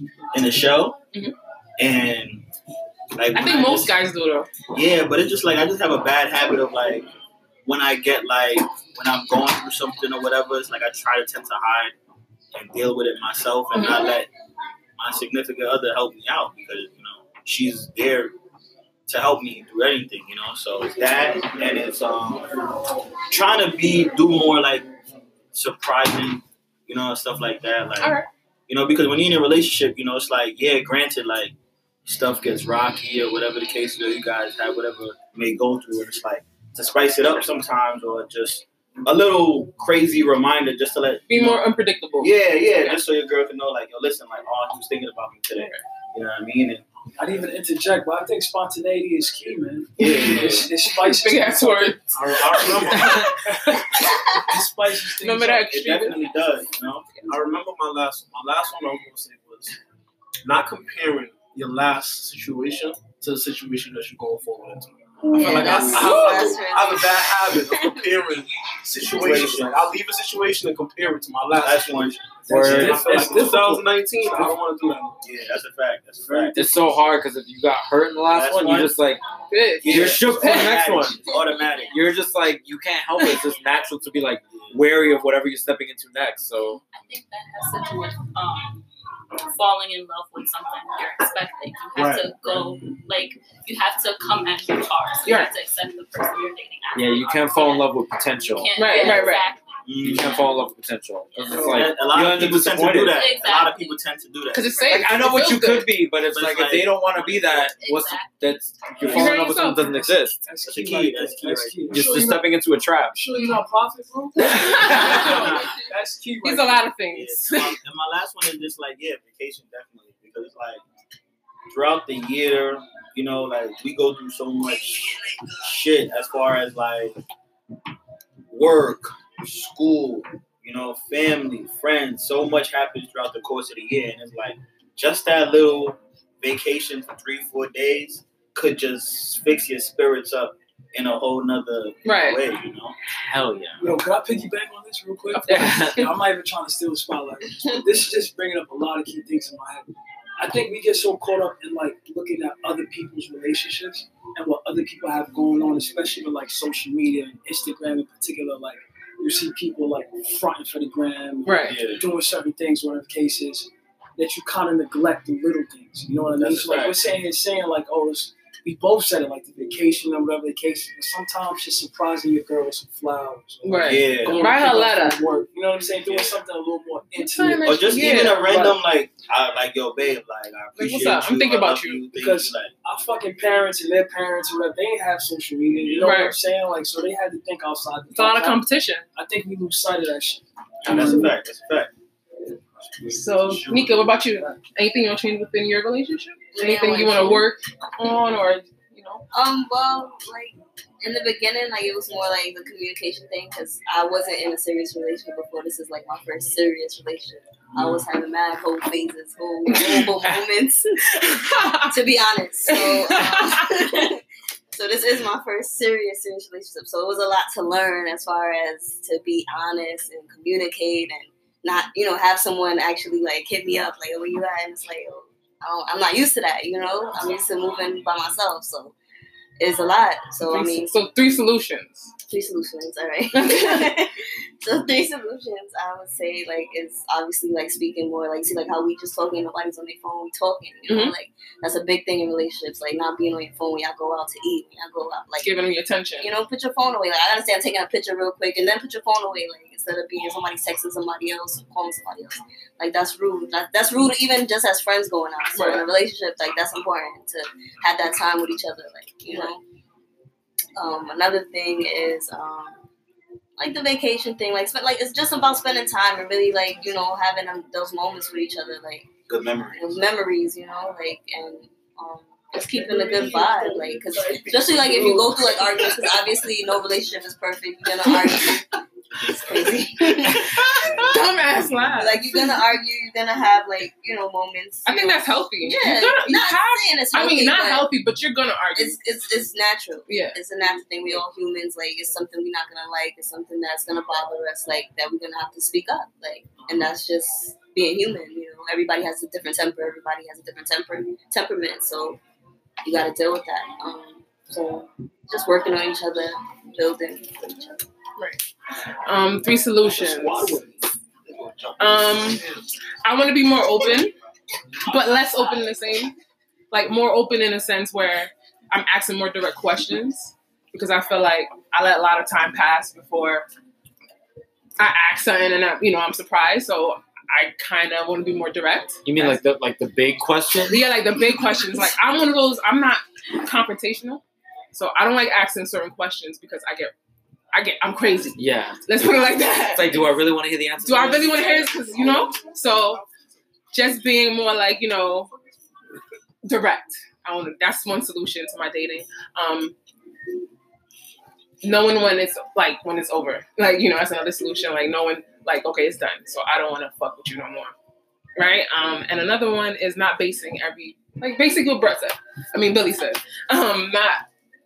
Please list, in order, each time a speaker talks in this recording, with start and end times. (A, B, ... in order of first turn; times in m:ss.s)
0:00.3-0:01.0 A
0:01.8-0:02.5 A
0:03.1-0:04.0 A
0:03.3-0:04.5 B
0:04.7-0:07.1 A
0:07.6-0:12.0 A
0:12.5-0:14.3 A
0:13.8-0:14.0 B
0:15.0-0:18.4 A
0:19.1-0:22.6 A
0:23.2-0:24.9 A
0:25.5-0:41.6 A
0:28.0-0:28.3 B
0:41.3-0:43.0 B
0:42.2-0:46.8 A
0:45.6-0:45.8 B
0:47.2-0:55.8 C
0:50.0-0:50.7 A
0:51.0-0:52.1 B
0:52.1-0:53.4 D
0:52.5-0:53.2 A
0:53.0-0:54.4 B
0:55.2-0:56.7 B
0:55.7-0:57.3 A
0:57.2-0:59.8 D
1:00.4-1:15.2 D
1:05.3-1:08.1 E
1:05.4-1:05.8 A
1:05.5-1:06.6 B
1:09.1-1:09.9 A
1:11.6-1:13.5 A
1:12.5-1:14.6 C
1:12.5-1:13.3 F
1:15.2-1:16.7 A
1:16.2-1:16.6 D
1:16.6-1:19.2 F
1:18.3-1:19.0 A
1:19.5-1:20.8 B
1:19.8-1:21.3 F
1:19.8-1:22.0 A
1:21.1-1:21.9 G
1:21.9-1:26.8 F
1:23.3-1:23.6 G
1:26.9-1:28.8 G
1:29.4-1:40.5 G
1:32.0-1:32.7 A
1:35.2-1:35.5 B
1:36.9-1:39.2 F
1:38.8-1:39.5 B
1:39.9-1:40.3 A
1:40.0-1:43.3 F
1:41.4-1:42.3 G
1:41.5-1:44.8 A
1:43.0-1:44.0 G
1:44.5-1:45.9 B
1:44.7-1:45.0 G
1:44.9-1:50.4 F
1:46.3-1:47.7 A
1:47.8-1:48.5 G
1:49.1-1:50.0 B
1:50.4-1:52.6 C
1:50.6-1:52.2 A
1:51.9-1:53.2 F
1:53.1-1:56.9 C
1:54.4-1:55.8 B
1:54.4-1:55.4 F
1:55.0-1:55.8 A
1:56.4-1:57.8 B
1:57.1-2:00.8 A
2:01.7-2:07.2 A
2:08.5-2:23.0 A
2:22.0-2:22.4 B
2:23.2-2:23.9 F
2:23.8-2:58.5 C
2:25.3-2:26.0 B
2:25.5-2:26.1 F
2:41.4-2:41.8 B
2:41.6-2:42.0 A
2:46.4-2:47.0 A
2:53.6-2:55.2 B
2:53.8-2:54.5 A
2:56.1-2:56.4 A
2:57.1-2:58.8 B
2:57.6-3:02.7 A
3:00.8-3:02.1 B
3:02.2-3:11.4 C
3:05.7-3:06.1 A
3:06.0-3:06.4 B
3:08.1-3:09.1 B
3:10.8-3:11.9 A
3:13.0-3:14.1 D
3:13.1-3:19.2 B
3:16.5-3:17.5 E
3:19.3-3:49.0 E
3:29.7-3:30.0 B
3:31.1-3:31.9 B
3:32.7-3:34.1 B
3:49.6-3:50.9 E
3:50.5-3:52.1 B
3:52.3-4:05.5 E
3:53.3-3:54.0 B
4:00.9-4:01.2 B
4:05.4-4:06.3 B
4:06.2-4:19.6 E
4:15.5-4:15.8 B
4:20.8-4:22.9 E
4:23.6-4:29.1 E
4:29.3-4:30.0 A
4:29.7-4:41.3 E
4:32.7-4:35.4 A
4:35.6-4:36.1 B
4:38.1-4:38.5 B
4:40.0-4:42.6 B
4:41.8-4:47.9 E
4:44.9-4:49.0 B
4:48.7-5:02.2 E
4:50.1-4:50.4 B
5:02.8-5:04.5 E
5:04.5-5:04.9 B
5:05.3-5:07.8 E
5:09.0-5:10.6 B
5:09.8-5:12.7 D
5:11.8-5:12.4 B
5:13.0-5:14.1 B
5:14.9-5:16.1 B
5:16.7-5:23.5 B
5:24.8-5:29.4 B
5:29.0-5:30.9 F
5:30.7-5:36.9 B
5:37.5-5:40.0 B
5:38.4-5:38.8 F
5:39.7-5:42.0 F
5:40.8-5:43.0 B
5:41.8-5:43.1 D
5:43.7-5:45.3 B
5:46.4-5:49.8 B
5:51.6-5:57.8 B
5:58.4-6:04.2 B